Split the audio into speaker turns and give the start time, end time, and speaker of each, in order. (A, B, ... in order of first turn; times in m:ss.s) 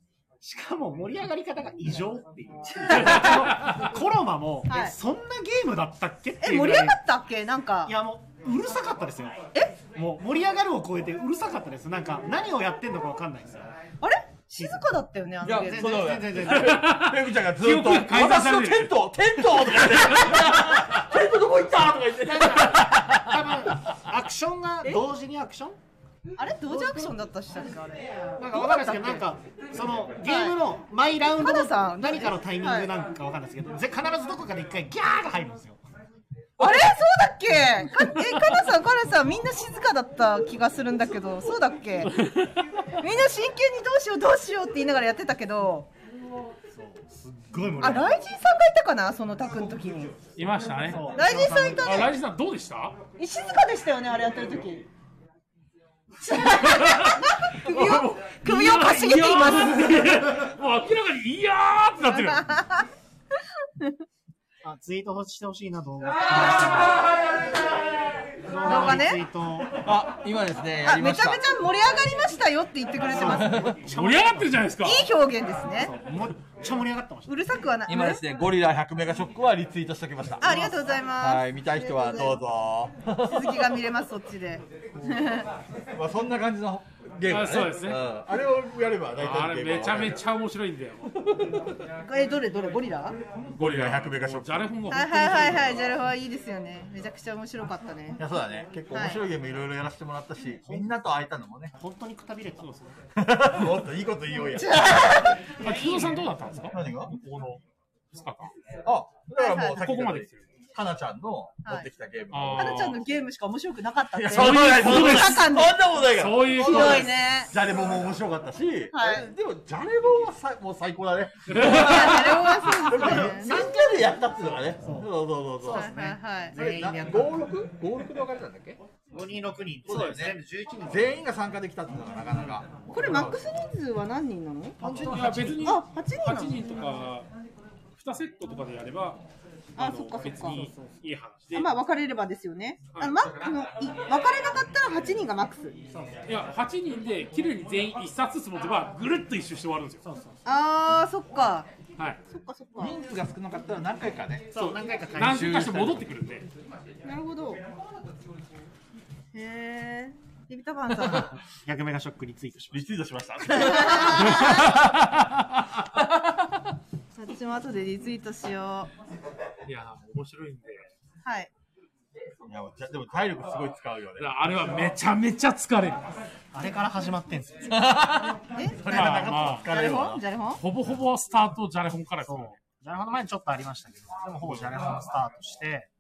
0:00.4-0:07.0 A
0:02.9-0:03.3 B
0:04.7-0:04.9 B
0:06.4-0:07.9 B
0:07.9-0:13.7 A
0:14.0-0:16.0 B
0:15.4-0:23.5 C
0:15.6-0:16.8 A
0:16.4-0:19.0 D
0:22.2-0:25.8 A
0:26.4-0:29.2 B
0:26.6-0:27.1 A
0:28.4-0:35.8 A
0:30.2-0:30.6 B
0:31.3-0:32.9 B
0:36.6-0:42.1 B
0:42.1-0:42.6 D
0:43.0-0:45.9 B
0:46.7-0:48.2 A
0:47.8-0:50.2 B
0:50.4-0:51.1 D
0:50.9-0:52.1 A
0:51.1-0:52.1 B
0:51.8-0:53.0 D
0:53.2-0:54.9 B
0:56.2-1:00.1 B
0:56.3-1:02.6 D
1:02.1-1:02.8 B
1:04.6-1:07.2 A
1:08.4-1:09.7 A
1:08.6-1:09.2 B
1:09.8-1:11.5 C
1:10.8-1:13.6 B
1:13.0-1:14.6 A
1:13.2-1:13.8 C
1:13.8-1:15.1 D
1:14.8-1:15.9 B
1:15.8-1:17.4 A
1:17.3-1:18.2 B
1:17.9-1:23.7 C
1:20.4-1:22.4 B
1:23.2-1:25.5 B
1:25.9-1:30.2 C
1:27.3-1:28.0 D
1:29.2-1:31.1 D
1:31.2-1:31.6 C
1:32.0-1:33.2 B
1:33.6-1:34.7 C
1:33.6-1:35.8 D
1:34.9-1:38.2 B
1:38.2-1:41.7 C
1:38.9-1:39.2 B
1:40.6-1:41.0 A
1:41.8-1:42.8 A
1:42.6-1:42.9 D
1:43.2-1:45.0 C
1:44.5-1:45.4 B
1:45.6-1:48.5 D
1:45.6-1:46.2 A
1:46.7-1:47.1 C
1:48.8-1:53.0 C
1:49.4-1:49.8 B
1:49.7-1:50.4 D
1:52.3-1:53.0 D
1:52.5-1:55.8 B
1:54.1-2:05.9 C
1:54.3-1:55.4 D
1:56.1-1:57.2 D
1:56.6-1:57.5 B
1:58.9-1:59.3 B
2:01.5-2:02.9 D
2:01.6-2:04.0 B
2:04.8-2:07.4 A
2:05.7-2:06.6 B
2:06.5-2:08.8 C
2:09.1-2:11.2 A
2:09.9-2:13.4 C
2:12.9-2:14.8 B
2:14.8-2:15.7 C
2:14.9-2:17.3 D
2:15.6-2:16.6 B
2:18.0-2:19.2 D
2:19.8-2:20.6 B
2:19.8-2:21.7 D
2:20.5-2:21.0 A
2:21.5-2:25.8 B
2:25.9-2:26.2 A
2:26.2-2:30.0 D
2:30.0-2:30.4 A
2:30.4-2:31.7 B
2:32.3-2:33.0 B
2:32.8-2:34.5 C
2:34.5-2:35.6 A
2:34.6-2:36.5 D
2:35.2-2:36.1 C
2:37.0-2:37.6 B
2:39.3-2:41.4 B
2:41.6-2:43.0 A
2:42.7-2:45.0 C
2:43.4-2:44.8 B
2:47.1-2:48.9 B
2:49.6-2:50.9 D
2:51.2-2:51.5 B
2:52.4-2:54.5 C
2:54.2-2:56.1 D
2:56.5-2:57.8 A
2:57.6-3:00.2 C
2:58.6-3:00.6 B
2:58.9-2:59.6 A
2:58.9-2:59.7 D
3:00.6-3:02.6 D
3:02.2-3:05.9 A